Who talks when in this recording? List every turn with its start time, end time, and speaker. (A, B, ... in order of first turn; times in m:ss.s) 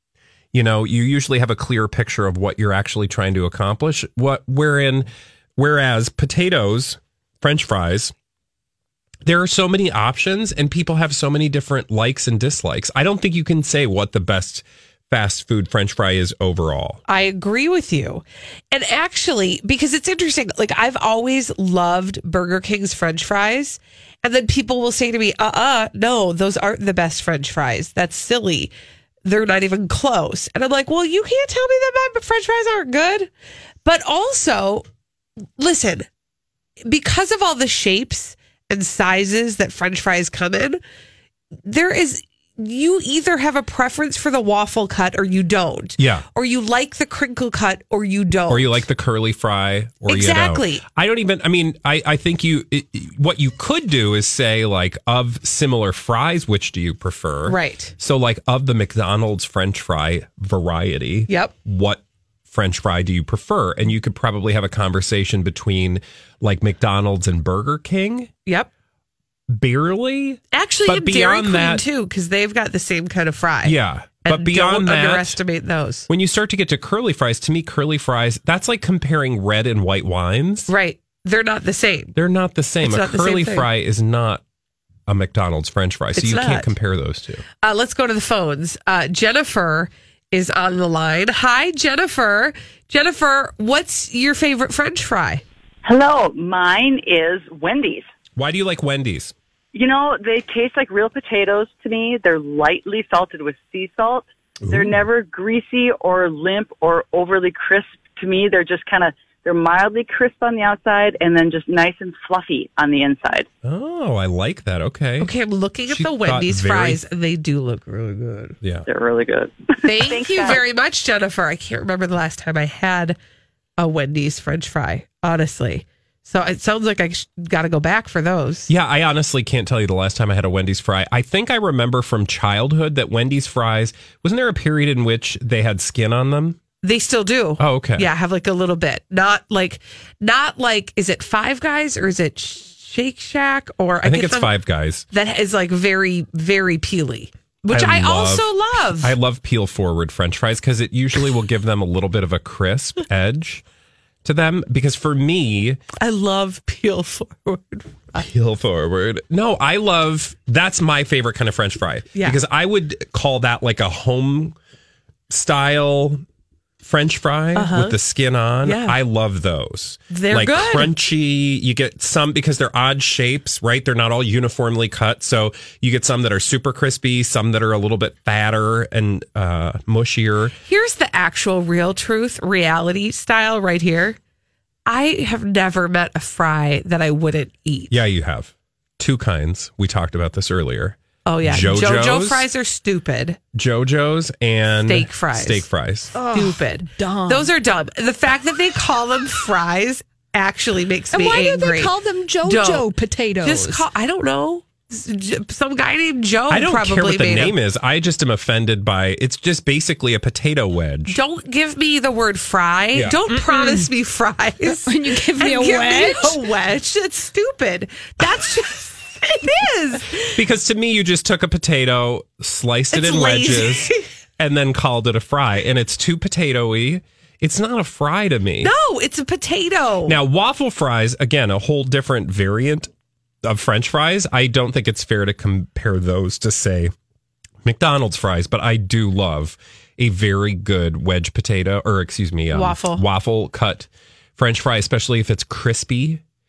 0:00.5-0:08.1 A
0:09.2-0:17.0 A
0:17.1-0:28.7 B
0:29.2-0:33.3 B
0:33.8-0:34.8 B
0:35.6-0:36.1 B
0:36.9-0:40.8 B
0:41.6-0:48.8 B
0:46.0-0:46.2 A
0:48.5-1:08.3 A
0:50.1-0:50.8 B
0:57.4-0:57.9 B
1:01.3-1:01.5 B
1:09.5-1:11.8 A
1:10.5-1:16.1 B
1:13.6-1:15.4 A
1:16.1-1:20.7 A
1:20.7-1:22.1 B
1:22.1-1:24.4 A
1:22.8-1:23.7 B
1:25.1-1:27.4 A
1:26.1-1:26.7 B
1:27.6-1:35.4 B
1:35.8-1:38.1 C
1:38.4-1:39.3 A
1:39.7-1:53.5 C
1:44.6-1:45.0 A
1:53.6-1:55.3 A
1:55.2-1:58.6 B
1:55.9-1:57.0 A
1:58.6-1:58.9 A
1:58.9-2:00.6 C
1:59.8-2:03.2 B
2:03.8-2:08.7 B
2:08.7-2:16.6 A
2:16.8-2:24.5 B
2:17.6-2:18.1 A
2:24.0-2:25.1 A
2:25.1-2:29.1 B
2:27.7-2:33.6 A
2:34.2-2:35.8 A
2:36.0-2:38.3 B
2:38.1-2:44.6 A
2:45.3-2:46.2 A
2:46.8-3:00.5 A
2:47.5-2:48.0 B
2:48.6-2:49.0 B
2:50.1-2:50.9 B
3:00.6-3:04.2 B
3:04.9-3:08.0 B
3:07.9-3:12.5 A
3:11.2-3:13.4 B
3:13.5-3:16.1 A
3:14.8-3:15.6 B
3:16.1-3:17.5 D
3:16.3-3:21.9 B
3:21.1-3:23.8 D
3:22.4-3:22.9 B
3:23.4-3:27.5 B
3:26.5-3:31.2 A
3:31.1-3:40.3 B
3:32.9-3:33.2 A
3:33.3-3:33.9 D
3:34.6-3:36.4 D
3:40.3-3:48.7 A
3:42.9-3:44.0 B
3:48.6-3:50.2 B
3:50.1-3:52.9 A
3:53.4-3:56.9 A
3:57.6-4:06.2 A
4:02.5-4:03.0 B